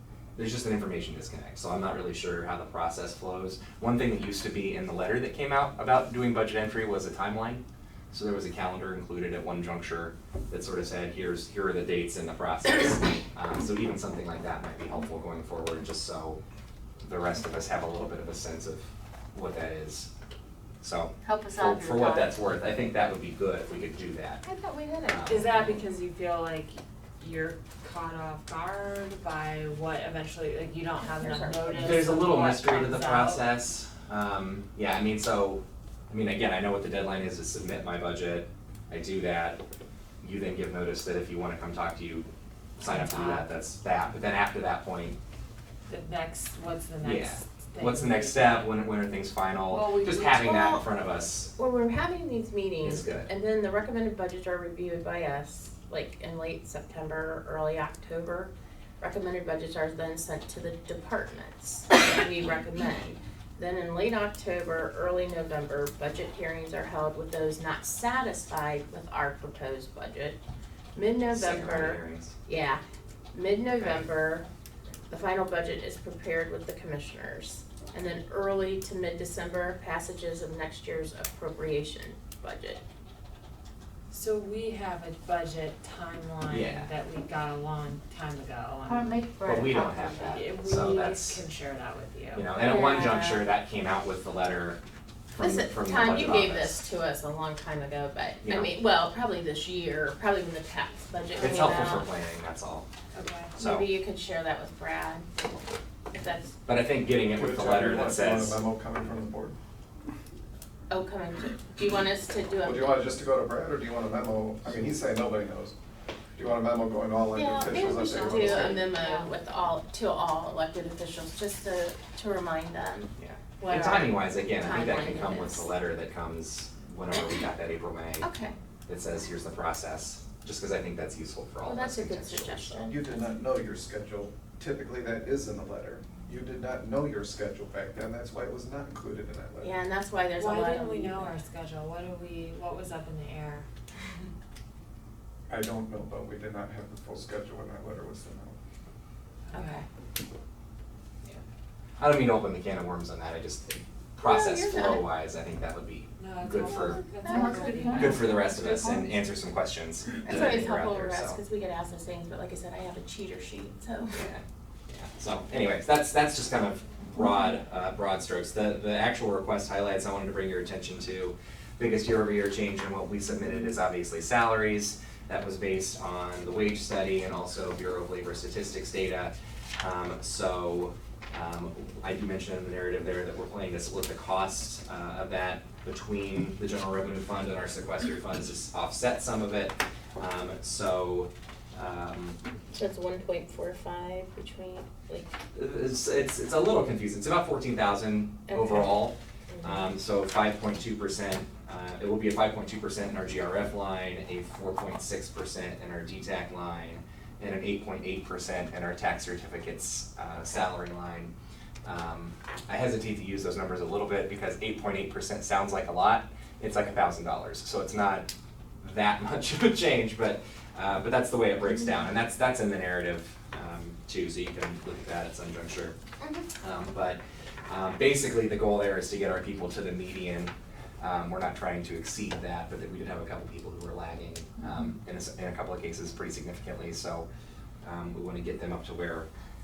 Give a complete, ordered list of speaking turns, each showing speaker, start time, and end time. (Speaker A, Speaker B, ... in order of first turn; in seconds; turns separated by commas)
Speaker A: 0.3-16.4, Speaker A: 17.0-20.1, Speaker A: 20.8-24.4, Speaker B: 21.2-22.3, Speaker B: 24.4-24.9, Speaker C: 24.5-25.3, Speaker A: 25.0-25.8, Speaker D: 25.2-33.5, Speaker B: 31.3-31.7, Speaker A: 31.7-39.6, Speaker A: 40.2-45.2, Speaker D: 42.8-43.5, Speaker D: 45.9-48.7, Speaker A: 47.0-51.5, Speaker C: 49.7-50.8, Speaker C: 51.5-70.4, Speaker A: 52.8-53.3, Speaker C: 70.9-72.8, Speaker A: 71.3-72.3, Speaker C: 73.3-74.5, Speaker C: 75.1-82.8, Speaker D: 84.1-89.2, Speaker A: 86.5-86.9, Speaker B: 88.8-90.4, Speaker A: 89.4-91.4, Speaker D: 90.1-92.5, Speaker A: 92.3-94.8, Speaker C: 92.5-93.5, Speaker A: 95.3-96.8, Speaker C: 95.4-102.1, Speaker A: 98.4-98.7, Speaker D: 101.4-101.6, Speaker A: 101.4-102.9, Speaker D: 103.1-103.5, Speaker A: 103.6-103.9, Speaker C: 103.6-105.3, Speaker C: 106.1-106.6, Speaker A: 106.7-108.6, Speaker E: 107.3-109.5, Speaker C: 110.9-113.0, Speaker E: 112.6-115.7, Speaker E: 116.3-118.8, Speaker C: 117.3-125.7, Speaker B: 117.8-119.3, Speaker A: 123.2-128.3, Speaker C: 128.2-128.5, Speaker A: 128.9-132.8, Speaker C: 131.6-132.9, Speaker E: 132.8-139.7, Speaker C: 139.6-141.3, Speaker D: 140.4-143.7, Speaker E: 145.5-148.5, Speaker D: 149.5-149.8, Speaker C: 149.5-149.8, Speaker A: 152.0-157.0, Speaker C: 154.2-155.1, Speaker D: 156.2-158.6, Speaker C: 156.7-158.0, Speaker B: 157.2-159.3, Speaker A: 157.9-161.4, Speaker C: 160.2-164.2, Speaker A: 164.1-192.4, Speaker C: 192.7-195.3, Speaker A: 195.5-211.3, Speaker C: 198.5-199.9, Speaker A: 211.8-218.3, Speaker A: 218.8-225.9, Speaker C: 221.6-222.0, Speaker C: 226.2-226.5, Speaker A: 226.6-237.3, Speaker A: 237.8-239.3